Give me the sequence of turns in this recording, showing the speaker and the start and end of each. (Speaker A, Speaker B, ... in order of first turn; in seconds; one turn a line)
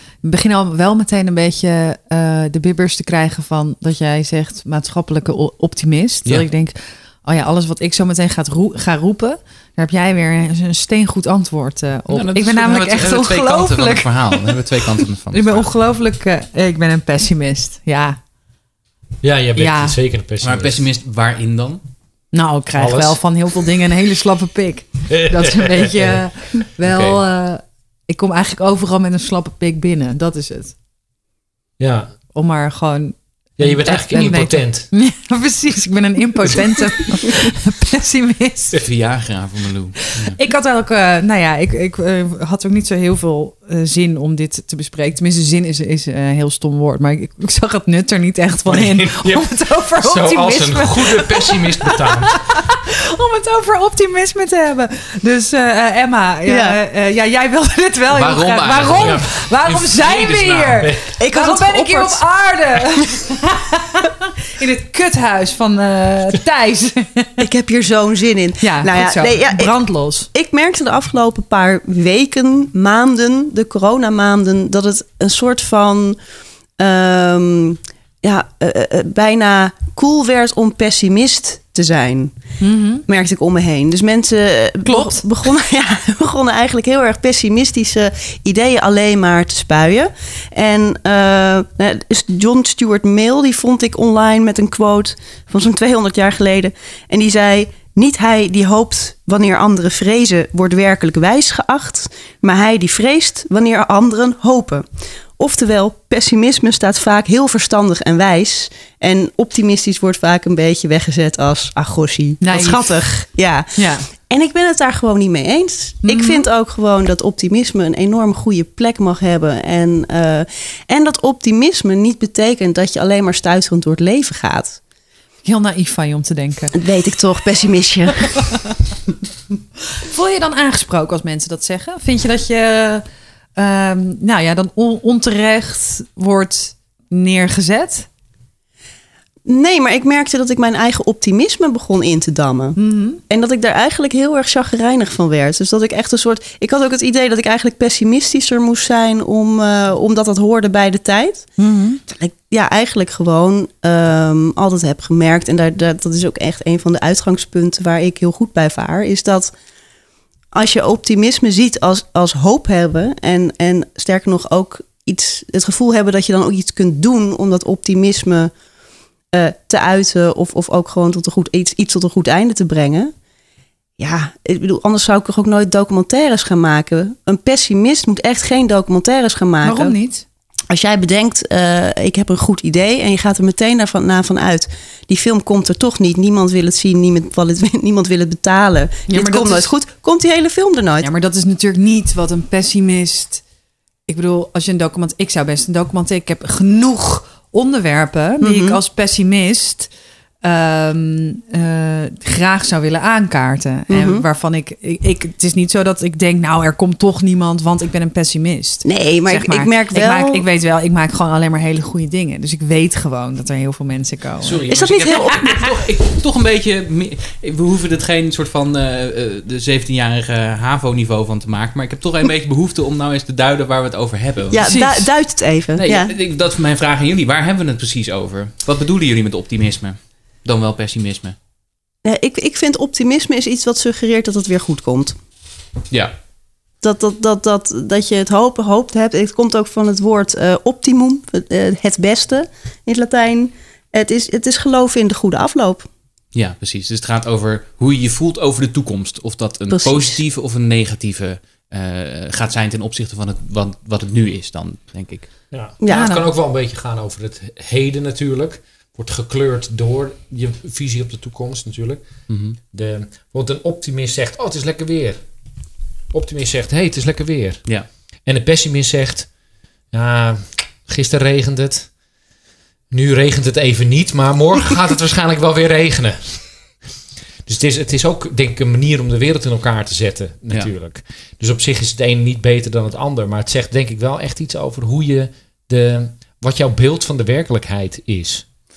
Speaker A: 0.2-14.6
Speaker B: 12.1-15.7
Speaker A: 15.3-18.2
Speaker C: 19.2-20.8
Speaker A: 19.6-20.0
Speaker B: 20.4-21.8
Speaker A: 22.3-30.8
Speaker C: 22.7-23.3
Speaker C: 25.1-26.2
Speaker B: 26.8-27.2
Speaker C: 31.8-32.1
Speaker A: 32.3-38.8
Speaker C: 33.6-34.9
Speaker B: 38.7-40.4
Speaker A: 40.0-67.4
Speaker C: 48.7-52.5
Speaker D: 56.5-56.8
Speaker B: 58.1-59.3
Speaker C: 58.9-61.1
Speaker B: 60.2-60.9
Speaker D: 61.2-62.4
Speaker D: 67.4-76.2
Speaker A: 68.6-70.3
Speaker D: 76.8-82.4
Speaker A: 82.6-83.0
Speaker D: 83.1-104.9
Speaker A: 84.8-85.2
Speaker D: 105.4-124.8
Speaker A: 112.4-114.1
Speaker A: 116.0-116.5
Speaker A: 125.4-126.8
Speaker D: 126.8-128.5
Speaker A: 130.1-133.0
Speaker A: 133.6-138.1
Speaker D: 139.5-151.5
Speaker A: 142.8-143.2
Speaker A: 151.6-152.0
Speaker D: 152.1-159.5
Speaker D: 160.5-168.5
Speaker D: 169.3-173.1
Speaker D: 174.0-179.9
Speaker A: 179.6-180.2
Speaker D: 180.7-191.1
Speaker A: 189.1-189.8
Speaker A: 191.0-193.4
Speaker A: 194.1-199.9
Speaker D: 198.4-198.8
Speaker A: 200.4-215.5
Speaker D: 203.9-204.2
Speaker D: 208.8-210.4
Speaker B: 214.4-224.8
Speaker D: 214.7-215.5
Speaker D: 224.5-226.1
Speaker A: 224.6-225.1
Speaker B: 225.8-231.4
Speaker D: 232.0-235.2
Speaker D: 236.8-245.9
Speaker B: 246.3-255.4
Speaker D: 249.7-250.2
Speaker C: 255.5-265.3
Speaker D: 255.8-256.2
Speaker A: 255.9-256.3
Speaker B: 262.3-262.6
Speaker C: 266.1-269.3
Speaker C: 269.9-271.9
Speaker C: 272.9-276.7
Speaker C: 277.5-288.5